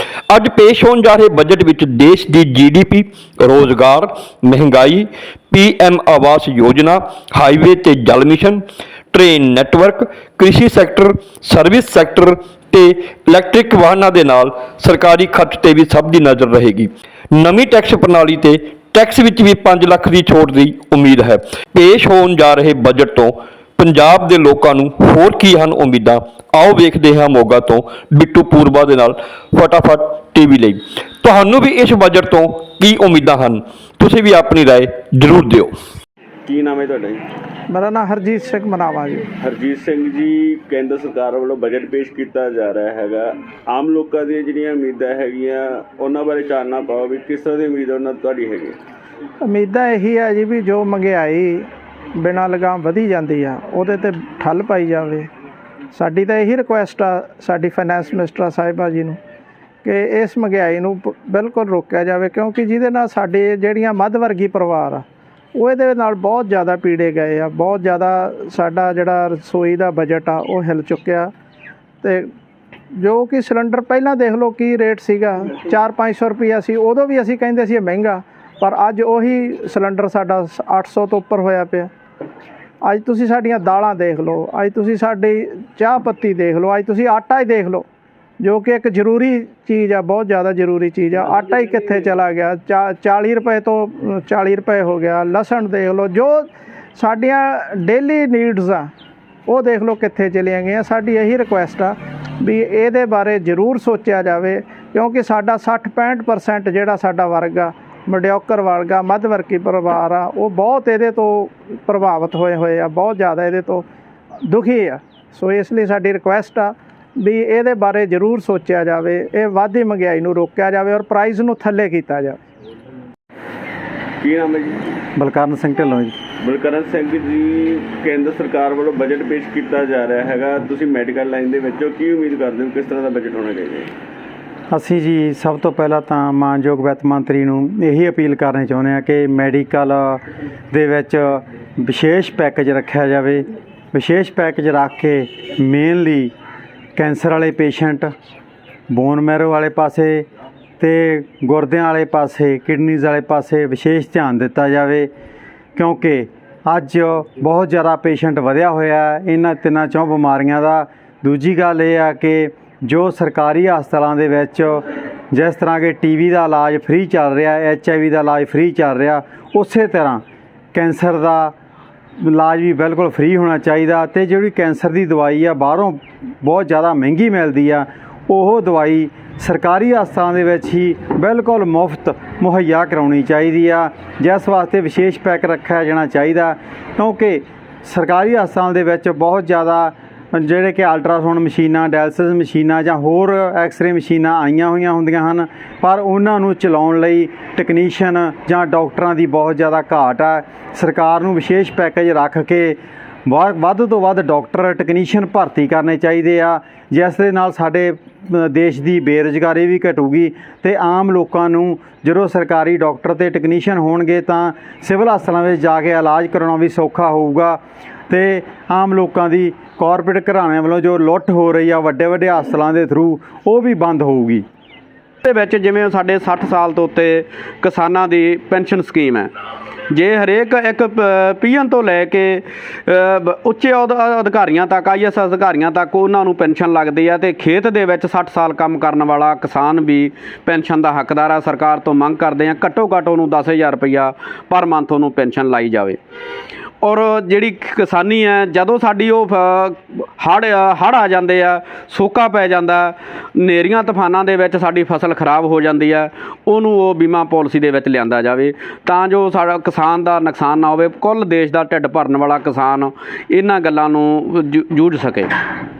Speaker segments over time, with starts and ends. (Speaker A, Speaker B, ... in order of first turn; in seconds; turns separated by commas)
Speaker A: 0.3-35.7, Speaker B: 36.5-37.2, Speaker C: 37.7-39.3, Speaker B: 39.4-48.8, Speaker C: 49.4-55.3, Speaker C: 55.9-59.2, Speaker C: 59.8-71.3, Speaker C: 72.0-72.3, Speaker C: 73.0-81.9, Speaker C: 82.8-87.8, Speaker C: 88.4-98.9, Speaker C: 99.5-113.8, Speaker C: 114.5-122.4, Speaker B: 124.2-125.0, Speaker D: 125.2-126.1, Speaker B: 126.4-133.9, Speaker D: 134.7-146.3, Speaker D: 146.9-148.1, Speaker D: 148.9-150.3, Speaker D: 150.8-155.1, Speaker D: 155.8-170.2, Speaker D: 170.7-171.5, Speaker D: 172.2-224.4, Speaker E: 225.2-229.3, Speaker E: 229.9-246.0, Speaker E: 246.8-265.4